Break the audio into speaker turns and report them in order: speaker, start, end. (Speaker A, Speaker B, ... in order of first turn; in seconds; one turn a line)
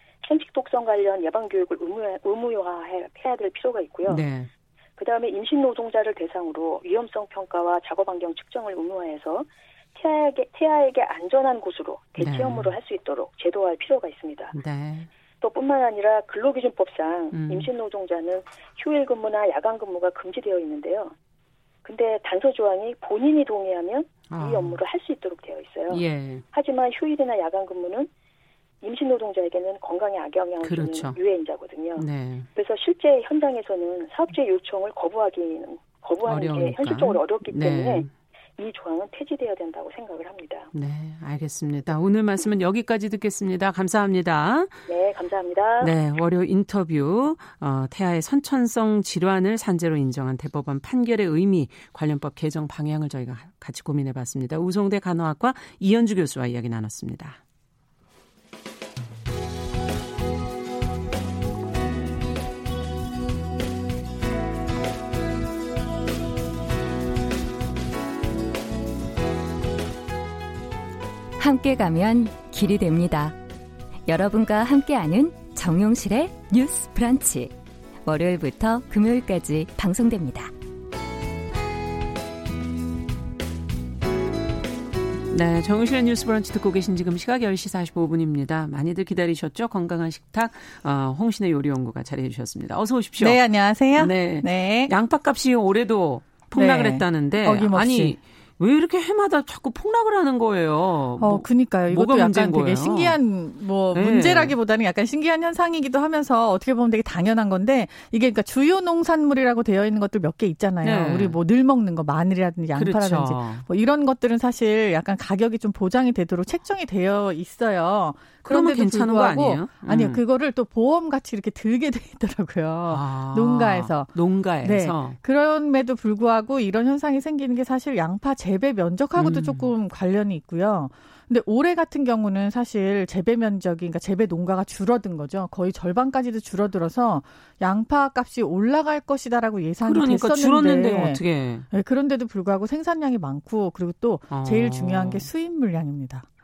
Speaker A: 0.2-4.2
Speaker B: 4.0-4.5
Speaker A: 5.0-14.6
Speaker B: 12.2-12.7
Speaker B: 14.5-15.1
Speaker A: 15.4-21.1
Speaker B: 17.3-17.7
Speaker A: 21.8-28.1
Speaker B: 24.3-24.8
Speaker B: 25.9-26.4
Speaker A: 28.8-38.0
Speaker B: 30.6-31.2
Speaker B: 31.9-32.5
Speaker B: 36.2-38.1
Speaker A: 38.6-40.7
Speaker B: 40.7-44.8
Speaker A: 44.9-45.9
Speaker B: 45.8-57.4
Speaker C: 71.4-73.4
Speaker C: 74.1-77.5
Speaker C: 78.0-80.5
Speaker B: 85.3-93.4
Speaker D: 93.2-94.9
Speaker B: 94.0-103.2
Speaker D: 96.5-98.2
Speaker D: 101.2-141.2
Speaker B: 103.9-104.5
Speaker B: 110.8-111.3
Speaker B: 112.7-113.7
Speaker B: 118.4-120.2
Speaker B: 122.9-125.2
Speaker B: 129.2-129.7
Speaker B: 139.8-141.7
Speaker D: 141.7-146.2
Speaker B: 144.3-145.3